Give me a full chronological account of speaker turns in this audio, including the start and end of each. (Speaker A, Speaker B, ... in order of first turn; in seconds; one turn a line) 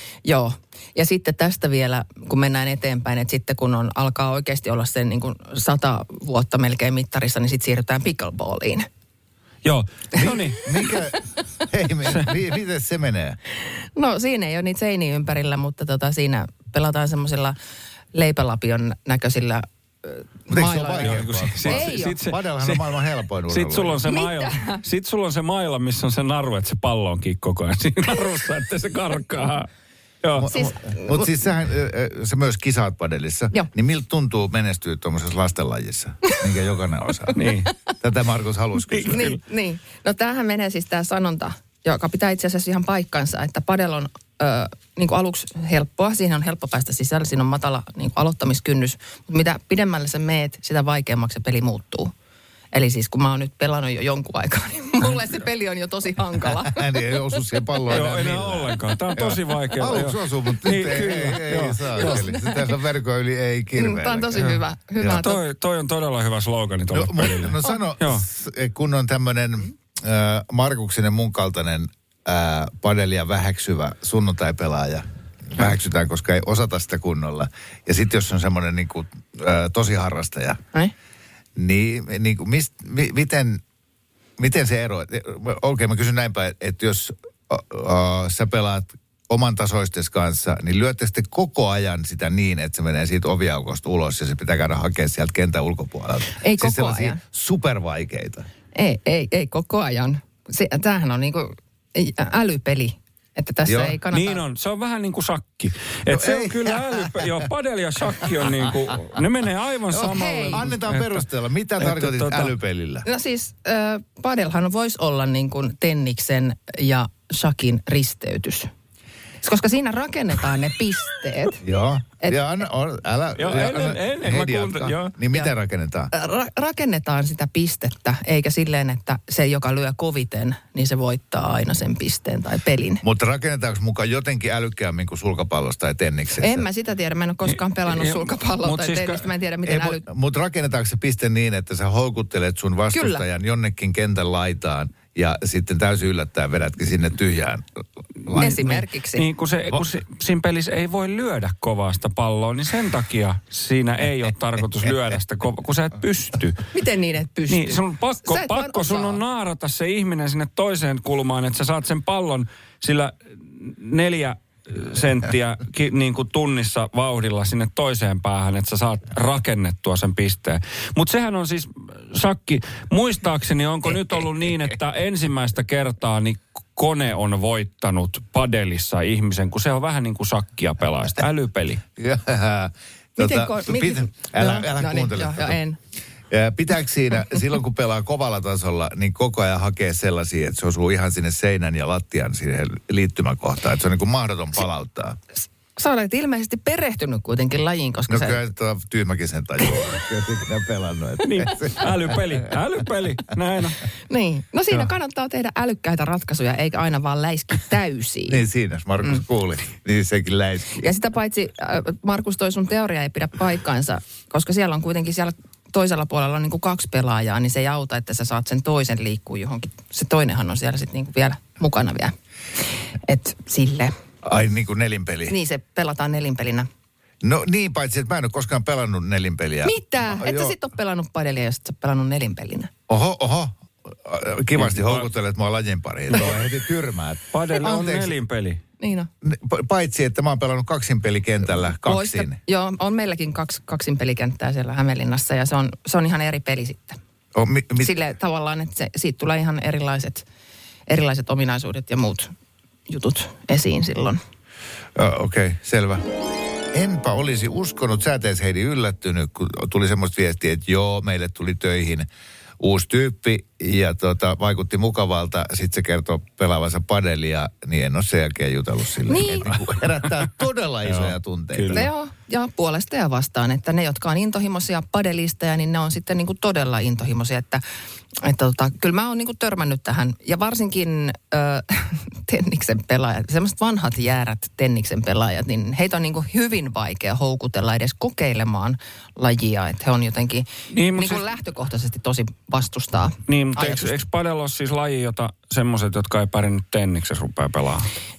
Speaker A: 0.2-8.9
Speaker B: 9.6-10.6
Speaker C: 10.2-13.4
Speaker A: 14.0-17.6
Speaker A: 18.1-22.1
Speaker C: 20.5-24.0
Speaker B: 21.0-22.9
Speaker B: 23.5-29.7
Speaker A: 24.1-24.8
Speaker C: 30.4-37.4
Speaker A: 30.5-31.3
Speaker B: 37.4-37.7
Speaker C: 38.0-39.4
Speaker B: 38.9-39.2
Speaker A: 39.0-52.1
Speaker A: 52.7-57.1
Speaker C: 56.4-65.2
Speaker B: 57.9-62.2
Speaker A: 62.0-62.7
Speaker A: 63.8-65.4
Speaker B: 65.1-68.3
Speaker C: 66.9-80.6
Speaker C: 81.6-83.6
Speaker C: 84.4-98.5
Speaker A: 96.4-97.2
Speaker A: 98.8-104.4
Speaker C: 103.7-104.0
Speaker B: 104.1-111.2
Speaker C: 106.1-107.3
Speaker C: 108.7-108.9
Speaker C: 110.0-113.1
Speaker A: 110.0-110.7
Speaker B: 111.8-112.5
Speaker A: 113.0-118.7
Speaker A: 119.4-121.6
Speaker C: 121.6-126.1
Speaker B: 123.4-125.2
Speaker A: 126.1-133.0
Speaker C: 133.0-136.7
Speaker A: 136.4-140.1
Speaker B: 137.5-139.3
Speaker C: 139.7-147.7
Speaker A: 142.9-143.2
Speaker C: 148.2-148.8
Speaker A: 148.4-149.2
Speaker B: 149.2-156.6
Speaker A: 156.7-159.2
Speaker B: 157.5-181.8
Speaker C: 182.0-185.6
Speaker A: 183.2-185.8
Speaker C: 186.3-195.2
Speaker A: 195.8-198.4
Speaker C: 198.1-202.5
Speaker B: 201.2-203.8
Speaker A: 204.1-208.4
Speaker C: 208.3-210.8
Speaker A: 210.8-222.1
Speaker A: 223.0-223.9
Speaker C: 224.2-225.4
Speaker A: 225.3-226.7
Speaker C: 227.2-230.6
Speaker A: 229.6-232.7
Speaker C: 232.9-238.1
Speaker B: 234.6-235.1
Speaker B: 237.3-238.6
Speaker A: 238.8-239.1
Speaker C: 239.2-242.4
Speaker A: 241.8-247.0
Speaker C: 247.3-247.9
Speaker A: 247.8-250.2
Speaker A: 250.9-252.3
Speaker A: 252.9-254.2
Speaker C: 254.9-256.0
Speaker C: 256.7-262.1
Speaker C: 262.6-271.9
Speaker A: 269.1-269.5
Speaker B: 270.9-271.9
Speaker A: 271.7-277.6
Speaker A: 278.2-293.9
Speaker B: 290.7-291.3
Speaker B: 293.3-297.9